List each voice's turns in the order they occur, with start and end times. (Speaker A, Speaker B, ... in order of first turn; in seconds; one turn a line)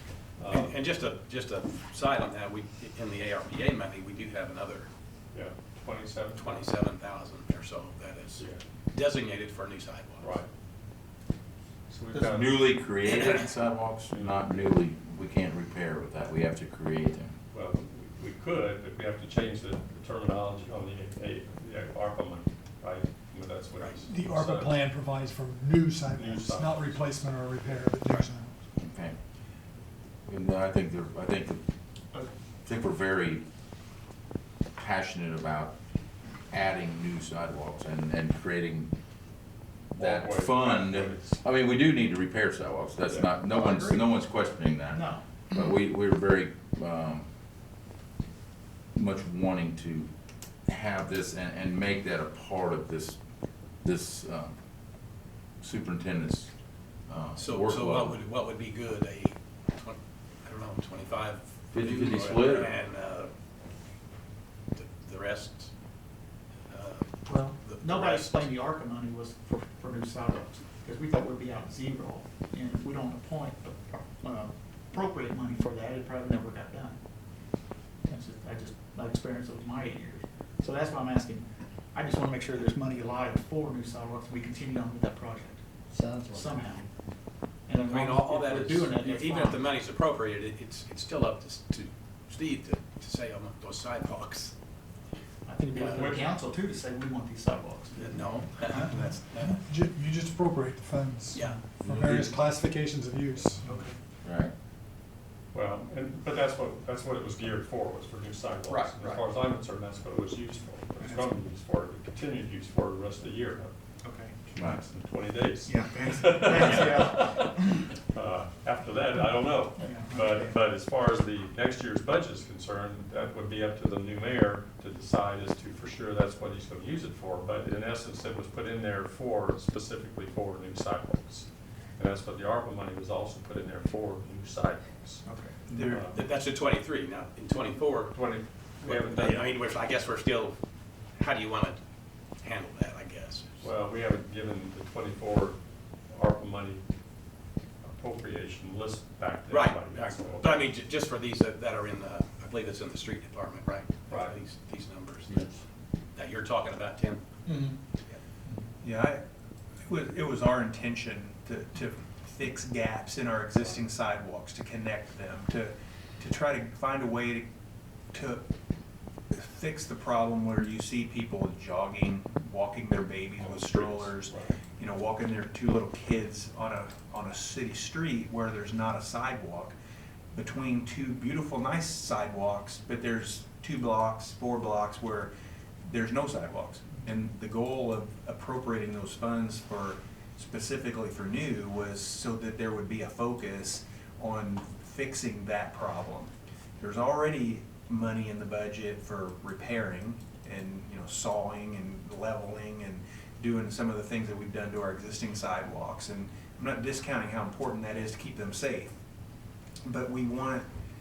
Speaker A: 0.4-0.7
Speaker B: 0.5-4.9
Speaker A: 5.3-6.7
Speaker B: 6.3-10.3
Speaker A: 10.2-10.5
Speaker A: 11.9-12.6
Speaker C: 12.2-17.3
Speaker A: 14.1-14.7
Speaker A: 17.5-24.9
Speaker D: 24.1-28.6
Speaker A: 26.1-27.8
Speaker C: 28.8-29.2
Speaker C: 30.2-31.6
Speaker C: 32.6-33.5
Speaker C: 34.8-35.8
Speaker C: 36.5-38.9
Speaker A: 39.9-41.4
Speaker C: 40.0-47.3
Speaker E: 43.5-44.0
Speaker E: 44.9-45.2
Speaker C: 49.0-50.1
Speaker C: 50.7-53.2
Speaker C: 53.8-54.5
Speaker C: 55.6-56.5
Speaker C: 57.1-58.2
Speaker B: 57.4-63.3
Speaker C: 61.7-62.7
Speaker B: 64.8-65.7
Speaker B: 66.7-68.5
Speaker E: 67.3-77.0
Speaker E: 78.1-86.9
Speaker E: 87.7-89.6
Speaker B: 87.9-94.5
Speaker E: 95.5-99.0
Speaker B: 95.7-96.2
Speaker A: 95.9-96.3
Speaker B: 97.9-99.6
Speaker D: 99.5-103.7
Speaker B: 101.3-101.6
Speaker C: 101.8-102.3
Speaker E: 103.6-104.0
Speaker C: 104.2-104.5
Speaker A: 105.5-113.7
Speaker B: 108.7-109.2
Speaker E: 111.0-111.3
Speaker E: 114.0-114.4
Speaker A: 114.4-131.5
Speaker C: 114.6-114.8
Speaker E: 115.7-117.8
Speaker E: 119.8-120.6
Speaker A: 132.0-136.2
Speaker E: 135.2-135.6
Speaker F: 135.7-136.0
Speaker B: 136.1-138.2
Speaker A: 138.1-139.5
Speaker B: 138.8-140.5
Speaker B: 141.2-141.8
Speaker B: 142.4-143.6
Speaker A: 143.6-145.6
Speaker A: 146.1-146.8
Speaker A: 147.8-150.7
Speaker B: 149.5-155.4
Speaker A: 154.1-154.4
Speaker A: 155.3-155.6
Speaker B: 156.1-157.2
Speaker E: 157.5-157.8
Speaker F: 158.8-159.2
Speaker F: 159.8-167.5
Speaker F: 168.1-168.4
Speaker F: 169.3-179.8
Speaker A: 173.4-174.6
Speaker F: 180.3-185.3
Speaker F: 185.8-208.9
Speaker F: 209.8-210.7